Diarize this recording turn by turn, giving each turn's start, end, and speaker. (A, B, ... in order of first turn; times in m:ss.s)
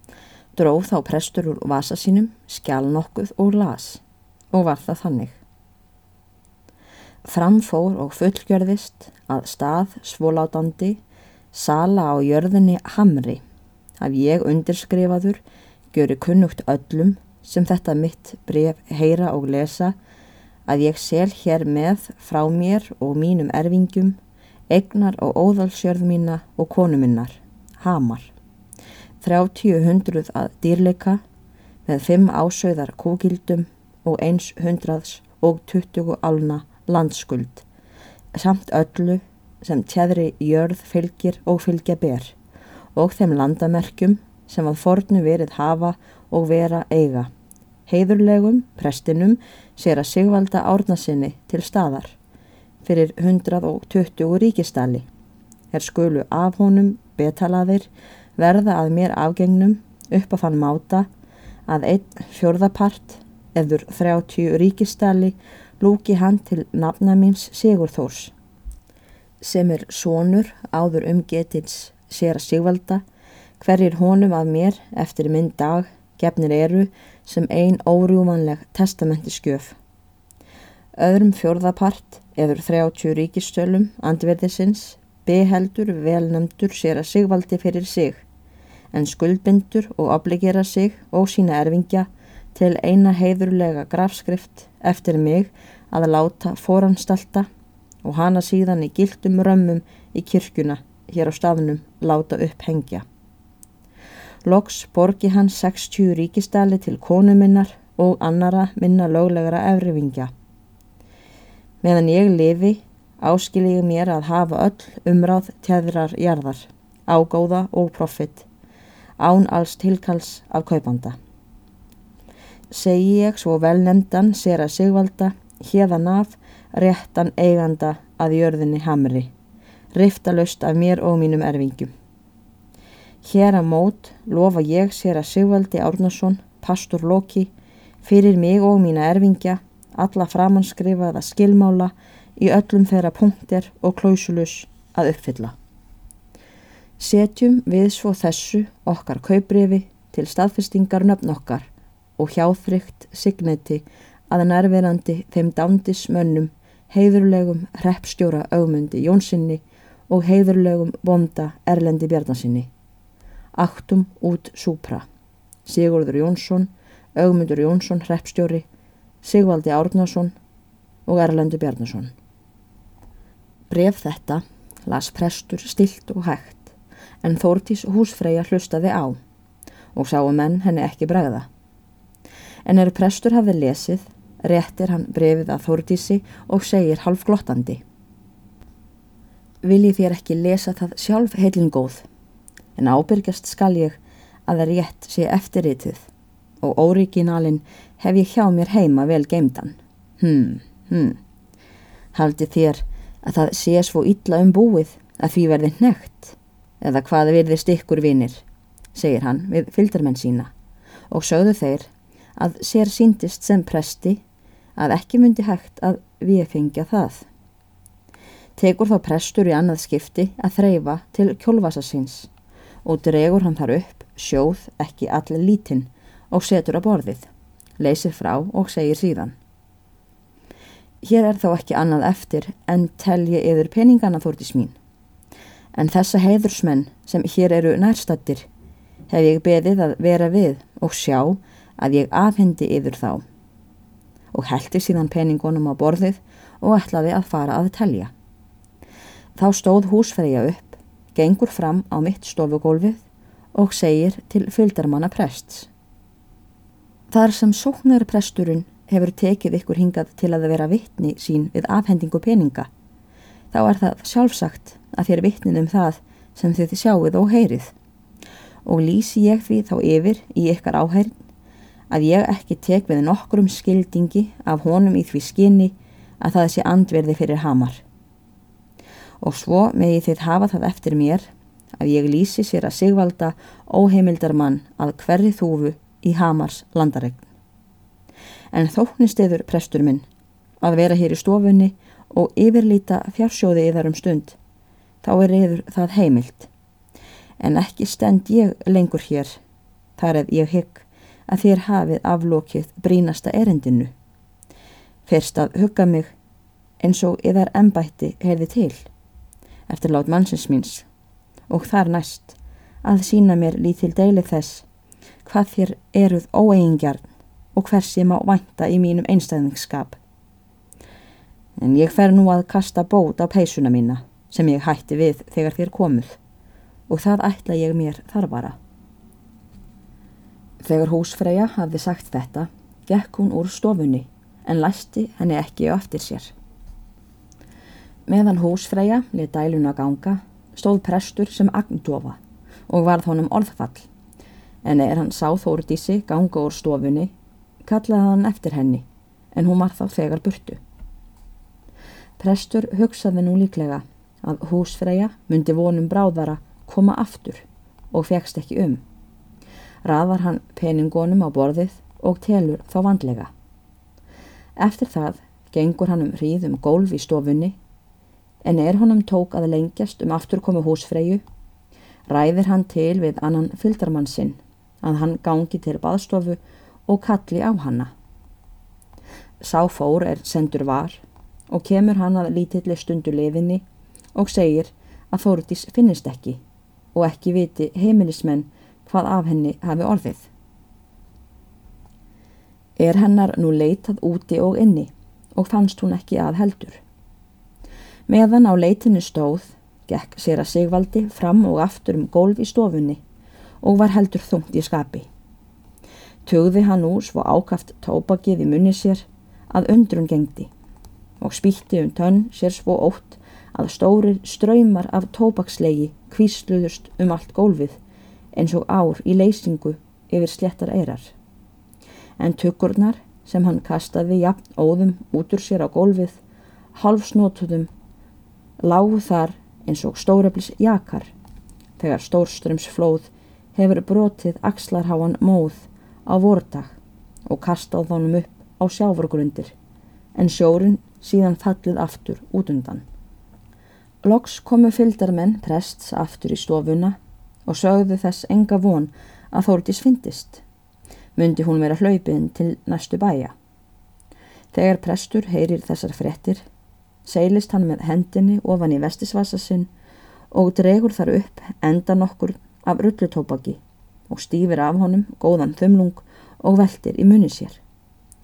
0:00.6-0:05.4 A
0:07.2-0:11.0 A
0:11.5-0:13.4 A
0:14.0-0:19.9 A
0:20.6-0:24.2 A
0:24.7-0:28.3 A
0:29.2-0:31.2 A
0:31.8-0:37.6 A
0:38.3-0:42.3 A
0:42.9-0:47.3 A
0:47.9-0:52.2 A
0:52.8-0:55.1 A
0:55.7-1:01.1 A
1:01.7-1:08.3 A
1:09.4-1:13.0 A
1:13.6-1:19.8 A
1:21.0-1:28.2 A
1:28.9-1:37.5 A
1:38.0-1:43.0 A
1:44.4-1:50.3 A
1:51.8-1:58.5 A
1:59.2-2:01.2 A
2:02.7-2:09.3 A
2:09.9-2:11.9 A
2:13.2-2:17.5 A
2:18.0-2:25.5 A
2:27.0-2:42.7 A
2:43.5-2:45.0 A
2:45.6-2:48.6 A
2:49.2-2:50.3 A
2:51.0-2:52.1 A
2:53.7-2:59.2 A
2:59.9-3:01.5 A
3:02.6-3:07.8 A
3:09.6-3:12.0 A
3:12.8-3:16.1 A
3:16.6-3:21.2 A
3:22.1-3:30.5 A
3:31.1-3:34.2 A
3:34.8-3:37.3 A
3:38.6-3:42.3 A
3:42.8-3:47.3 A
3:47.8-3:49.4 A
3:51.0-3:54.7 A
3:55.7-3:58.4 A
3:59.1-4:03.2 A
4:04.3-4:08.1 A
4:09.4-4:15.7 A
4:17.1-4:22.7 A
4:23.5-4:27.7 A
4:28.6-4:31.1 A
4:31.9-4:37.8 A
4:39.2-4:47.3 A
4:48.5-4:50.0 A
4:50.6-4:54.4 A
4:55.0-4:56.5 A
4:57.4-4:59.4 A
5:00.0-5:03.9 A
5:05.0-5:06.1 A
5:06.8-5:08.9 A
5:09.7-5:10.8 A
5:11.5-5:14.6 A
5:15.2-5:20.0 A
5:21.6-5:26.2 A
5:26.9-5:28.6 A
5:30.6-5:36.3 A
5:38.1-5:43.9 A
5:44.6-5:47.1 A
5:47.6-5:50.6 A
5:52.2-5:58.8 A
5:59.8-6:03.3 A
6:04.6-6:07.5 A
6:08.4-6:11.2 A
6:12.1-6:17.9 A
6:19.4-6:23.6 A
6:24.1-6:26.4 A
6:26.9-6:30.3 A
6:32.8-6:36.8 A
6:38.1-6:43.0 A
6:43.6-6:45.1 A
6:46.2-6:50.5 A
6:51.2-6:57.8 A
6:58.3-7:01.1 A
7:02.2-7:06.2 A
7:06.7-7:07.7 A
7:08.6-7:11.1 A
7:11.8-7:19.5 A
7:20.2-7:22.8 A
7:24.0-7:30.4 A
7:31.2-7:33.3 A
7:34.5-7:36.4 A
7:37.0-7:39.7 A
7:40.3-7:47.6 A